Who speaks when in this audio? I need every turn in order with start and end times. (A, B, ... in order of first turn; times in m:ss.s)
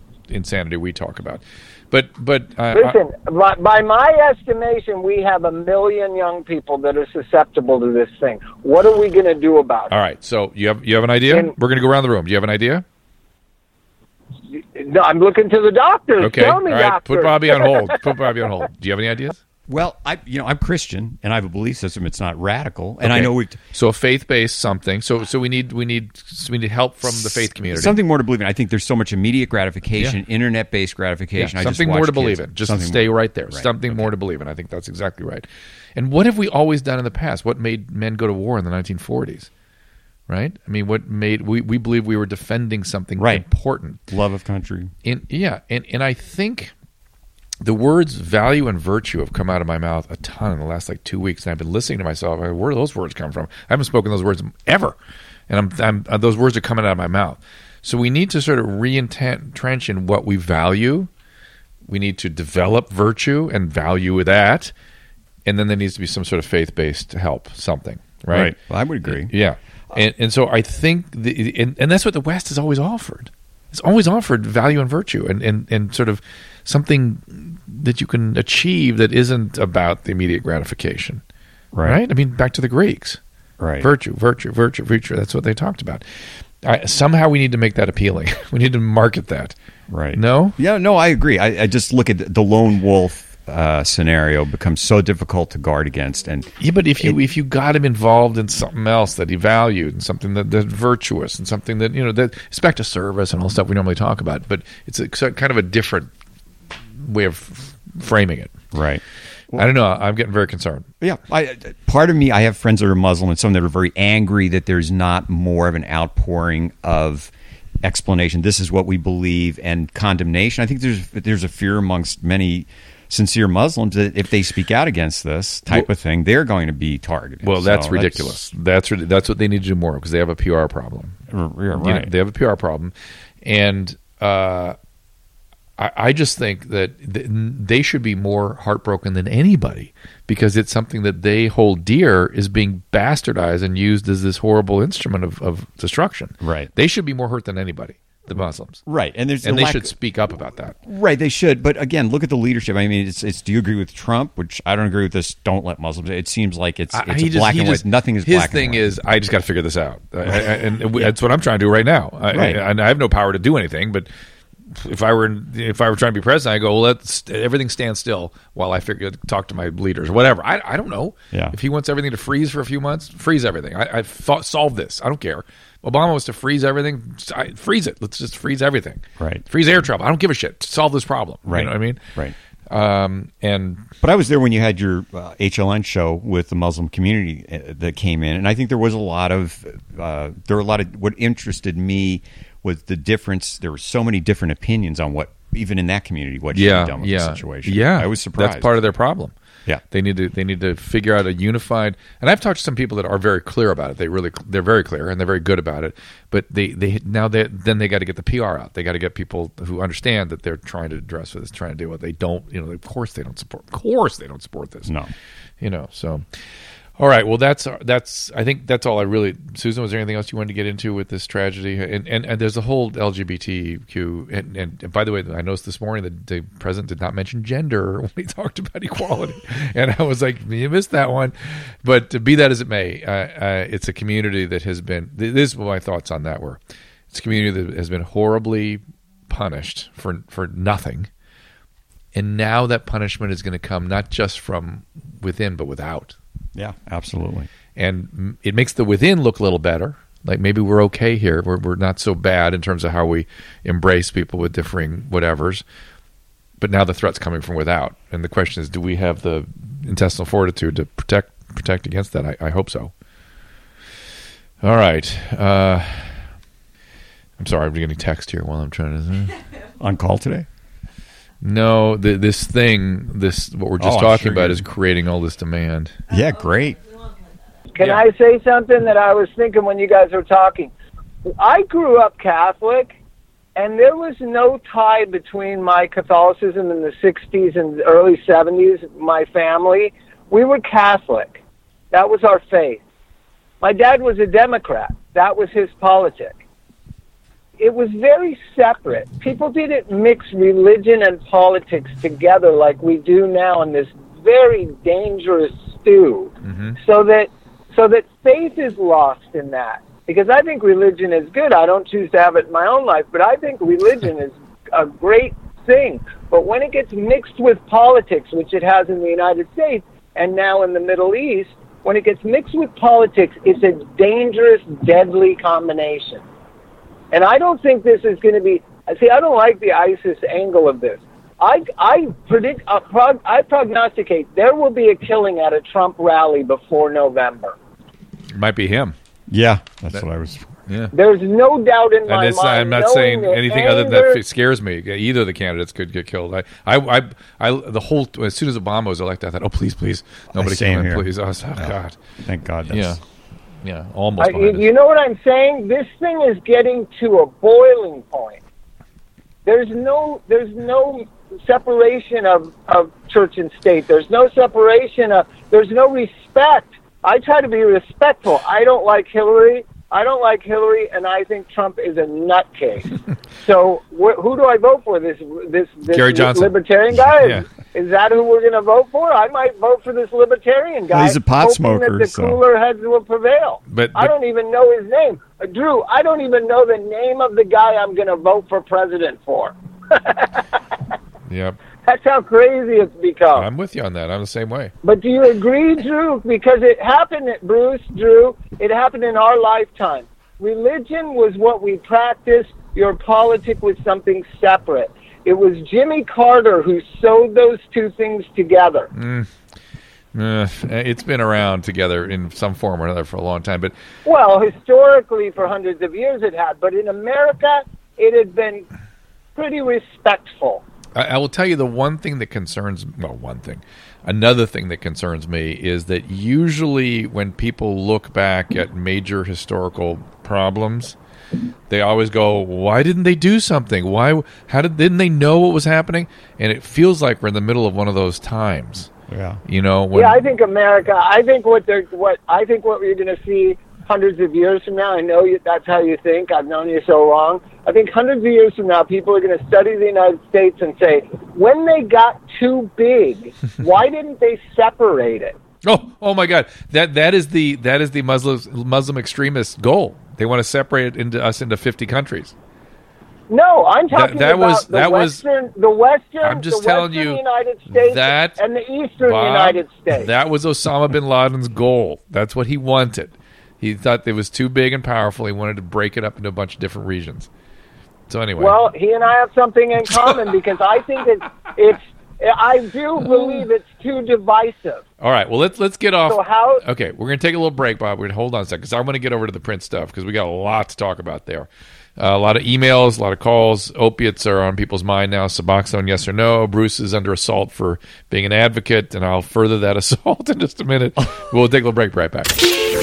0:00.3-0:03.0 A
0:02.7-0:09.9 B
0:09.9-0:12.8 A
0:14.5-0:18.0 B
0:16.2-0:19.4 A
0:19.7-0:23.6 C
0:23.0-0:28.0 A
0:27.0-0:34.1 C
0:31.4-0:39.5 A
0:40.3-0:44.0 A
0:43.2-0:43.5 C
0:44.1-0:44.9 C
0:45.0-0:46.7 A
0:47.6-0:55.0 A
0:55.5-1:01.1 A
1:01.9-1:04.7 A
1:05.5-1:08.6 A
1:08.3-1:09.3 C
1:09.1-1:21.2 A
1:21.7-1:22.0 C
1:21.8-1:23.2 A
1:23.6-1:23.9 C
1:23.8-1:26.0 A
1:26.6-1:29.6 A
1:29.9-1:37.2 C
1:30.1-1:30.6 A
1:36.6-1:46.1 A
1:47.0-1:48.5 A
1:48.7-1:49.7 C
1:49.6-1:50.9 A
1:51.0-1:57.3 C
1:57.8-2:08.4 C
2:07.4-2:11.2 A
2:11.3-2:12.1 C
2:11.8-2:12.9 A
2:13.4-2:14.8 A
2:15.8-2:28.8 A
2:26.4-2:26.7 C
2:28.9-2:29.9 C
2:29.4-2:30.8 A
2:30.9-2:38.8 C
2:36.9-2:44.1 A
2:40.3-2:41.1 C
2:42.3-2:42.6 C
2:44.7-3:02.0 A
2:59.2-2:59.4 C
3:01.5-3:02.3 C
3:02.7-3:03.9 A
3:04.0-3:18.7 C
3:16.5-3:19.3 A
3:19.9-3:34.9 A
3:34.8-3:35.1 C
3:35.6-3:36.2 A
3:37.0-3:56.6 A
3:57.1-4:01.1 A
4:02.1-4:06.2 A
4:06.6-4:07.5 C
4:07.8-4:15.6 A
4:16.6-4:22.9 A
4:24.6-4:26.1 A
4:27.4-4:29.4 A
4:29.8-4:30.5 C
4:31.4-4:36.0 A
4:33.8-4:34.7 C
4:36.1-4:36.8 C
4:37.7-4:40.7 B
4:41.3-4:42.9 B
4:43.6-4:51.4 B
4:51.9-4:52.8 B
4:53.6-4:56.4 B
4:57.6-5:26.2 B
5:06.4-5:06.8 A
5:27.1-5:37.6 B
5:38.3-5:39.0 A
5:39.3-5:40.5 C
5:40.7-5:40.9 A
5:40.9-5:44.2 B
5:42.1-5:52.0 A
5:50.3-5:53.0 C
5:52.7-5:53.0 A
5:53.6-5:54.6 A
5:54.2-5:58.4 B
5:59.5-6:30.4 B
6:15.9-6:17.4 A
6:20.9-6:22.4 C
6:23.7-6:24.1 A
6:31.3-6:31.6 A
6:31.9-6:33.5 B
6:33.4-6:34.7 A
6:34.8-6:48.9 B
6:48.9-6:49.3 A
6:50.1-6:53.7 A
6:54.0-6:58.7 B
6:59.4-7:00.6 B
7:01.0-7:11.0 A
7:11.7-7:18.9 A
7:19.1-7:19.4 C
7:19.5-7:20.2 A
7:20.0-7:35.4 B
7:35.6-7:42.3 A
7:43.3-7:50.1 B
7:43.9-7:45.2 A
7:46.2-7:48.4 A
7:49.0-7:57.3 A
7:58.1-7:58.6 A
7:58.4-8:04.8 B
8:03.1-8:03.4 A
8:05.0-8:22.4 A
8:06.1-8:06.6 B